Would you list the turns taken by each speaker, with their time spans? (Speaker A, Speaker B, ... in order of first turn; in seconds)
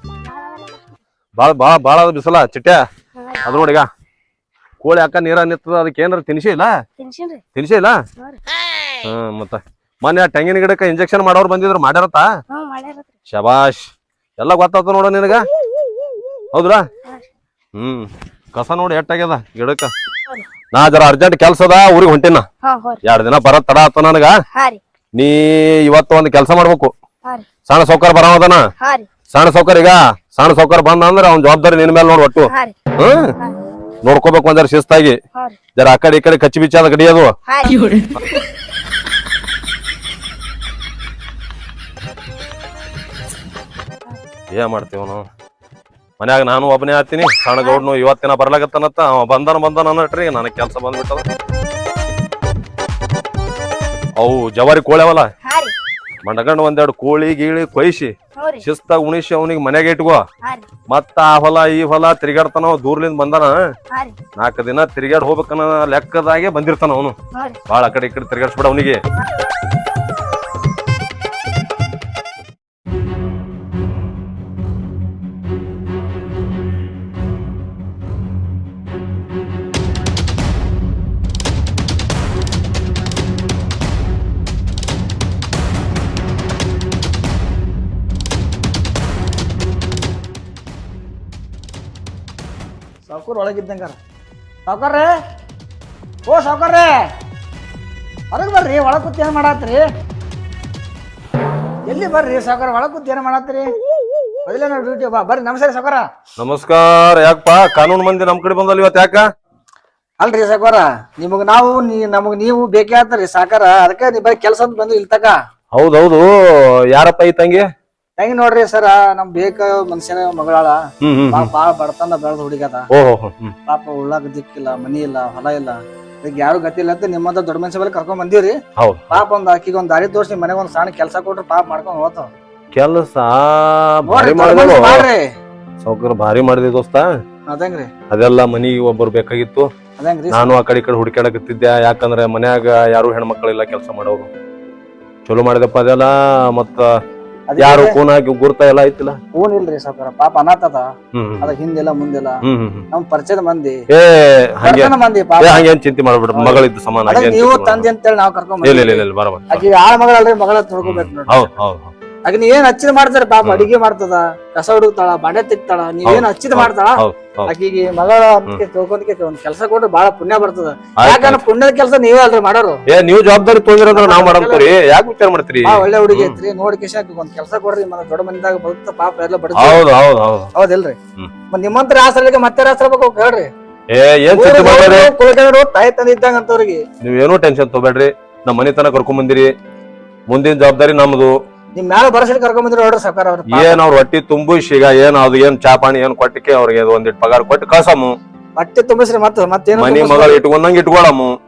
Speaker A: 0.3-0.8, 7.0-7.4, 12.5-13.1, 22.6-23.0, 24.5-24.8, 28.8-29.1, 32.5-32.8, 37.5-37.7, 55.5-55.7
Speaker B: 1.4-2.8, 3.4-3.9, 4.8-6.8, 7.5-8.0, 9.0-12.3, 13.3-15.5, 16.5-16.8, 17.8-19.9, 20.7-22.4, 23.0-24.4, 25.2-26.9, 27.7-28.6, 29.3-33.4, 34.0-35.2, 35.8-37.3, 44.5-45.2, 46.2-51.2, 54.2-55.3, 56.2-60.2, 60.9-63.5, 64.4-67.2, 67.7-69.0, 106.4-109.2, 115.7-116.3, 116.9-117.7, 121.0-121.5, 122.9-123.5, 128.8-129.2, 132.7-135.1, 135.8-137.1, 138.1-139.7, 140.3-144.3, 145.3-146.8, 147.6-149.2, 151.2-151.5, 152.5-152.8, 153.9-157.9, 158.6-159.7, 160.8-161.9, 163.4-163.7, 166.0-167.5, 171.0-171.4, 172.9-176.4, 179.6-180.5, 183.9-185.1, 187.0-189.5, 190.3-191.3, 193.5-198.2, 199.8-201.3
Speaker C: 93.1-94.0, 94.7-95.1, 96.3-96.9, 98.3-99.8, 101.9-103.7, 104.5-106.0, 110.2-115.4, 118.2-120.8, 121.3-122.9, 123.7-128.6, 129.1-132.3, 134.1-135.2, 137.5-137.9, 140.0-140.6, 147.5-148.0, 149.3-150.9, 151.4-152.4, 152.9-153.8, 154.6-155.7, 156.3-161.5, 162.2-172.8, 173.9-174.7, 175.7-179.9, 180.6-181.0, 181.5-183.5, 184.3-186.8, 191.8-193.8, 198.6-200.4